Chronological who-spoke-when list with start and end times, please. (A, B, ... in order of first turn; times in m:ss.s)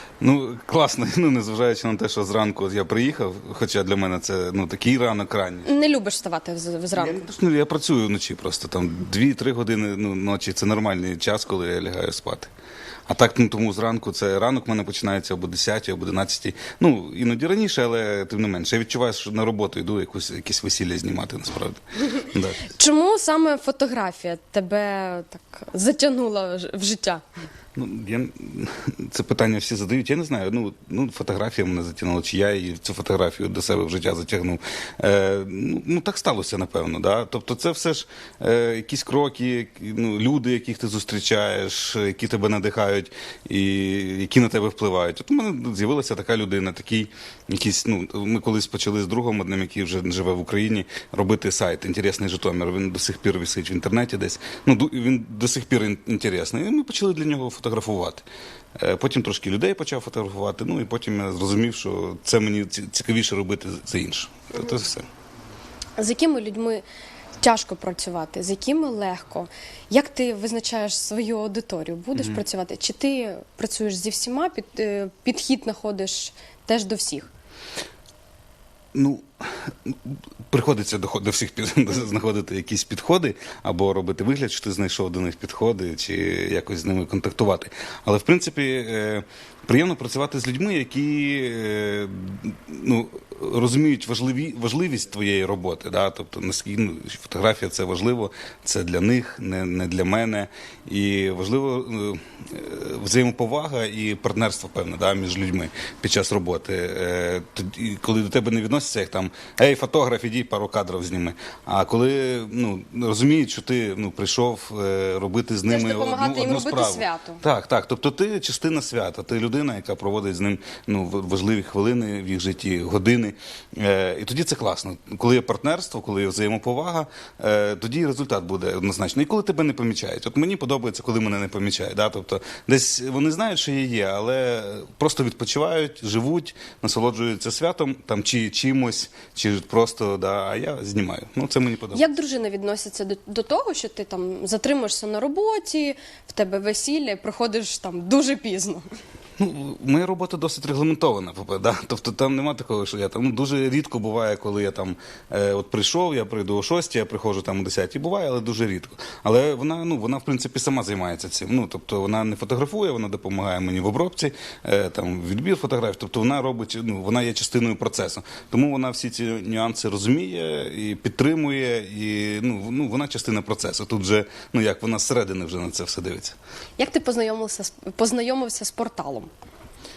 0:00.2-0:05.7 A
0:05.6-0:07.3 B
0:06.9-0:12.5 A
0:13.1-0:22.7 A
0:22.7-0:27.2 B
0:27.8-1:05.1 A
1:06.0-1:06.8 B
1:07.4-1:17.3 B
1:18.9-2:22.0 A
1:55.6-1:57.4 B
2:21.9-2:28.8 B
2:29.4-2:56.4 A
2:56.8-2:59.3 B